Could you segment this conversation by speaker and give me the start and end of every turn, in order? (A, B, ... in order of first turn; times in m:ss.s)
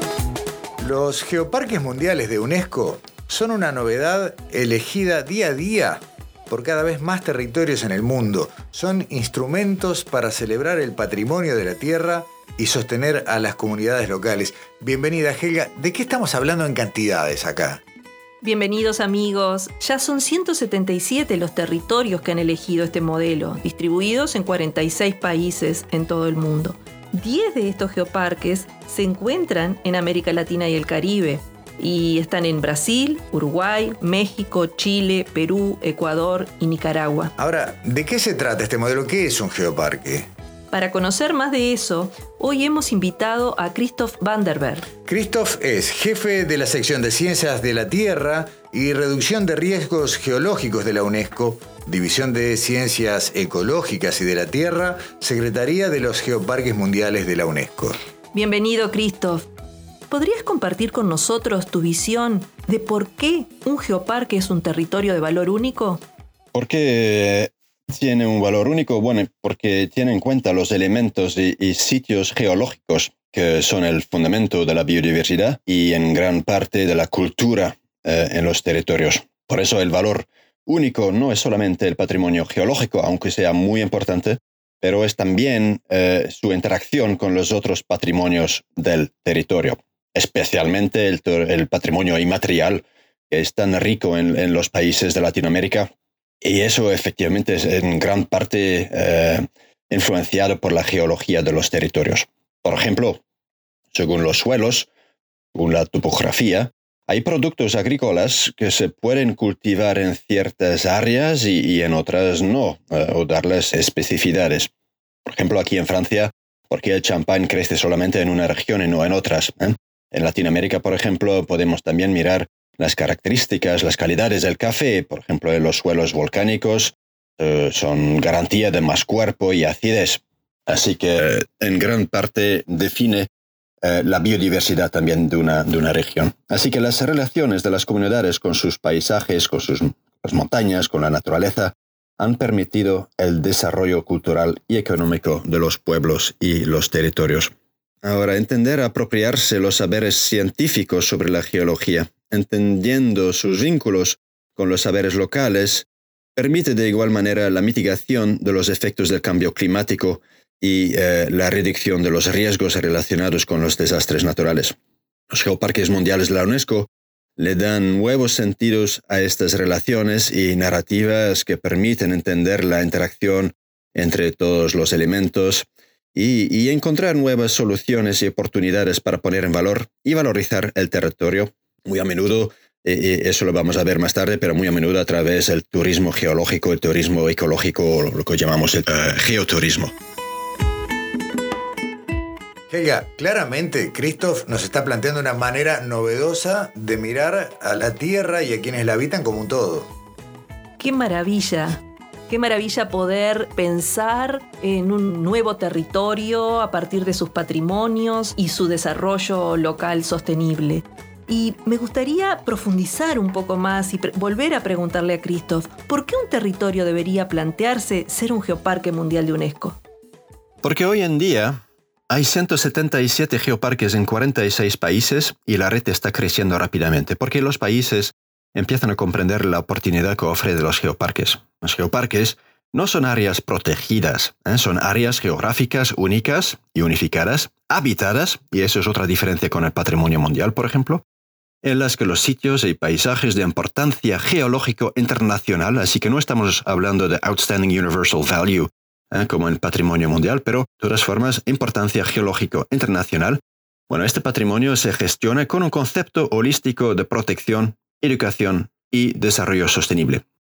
0:00.8-0:17.8 A
0:18.4-0:37.3 B
0:37.4-0:40.3 A
0:40.7-0:44.9 B
0:45.0-0:58.0 A
0:58.3-0:59.5 B
1:00.1-1:06.0 B
1:06.5-1:35.9 C
1:36.4-1:43.2 C
1:43.9-1:44.9 C
1:45.5-1:54.7 C
1:55.2-2:13.3 C
2:13.8-2:27.5 C
2:28.0-2:44.7 C
2:45.3-3:09.9 C
3:12.7-3:19.9 A
3:20.8-3:39.8 B
3:40.6-3:41.6 C
3:42.1-4:01.0 C
4:01.6-4:20.2 C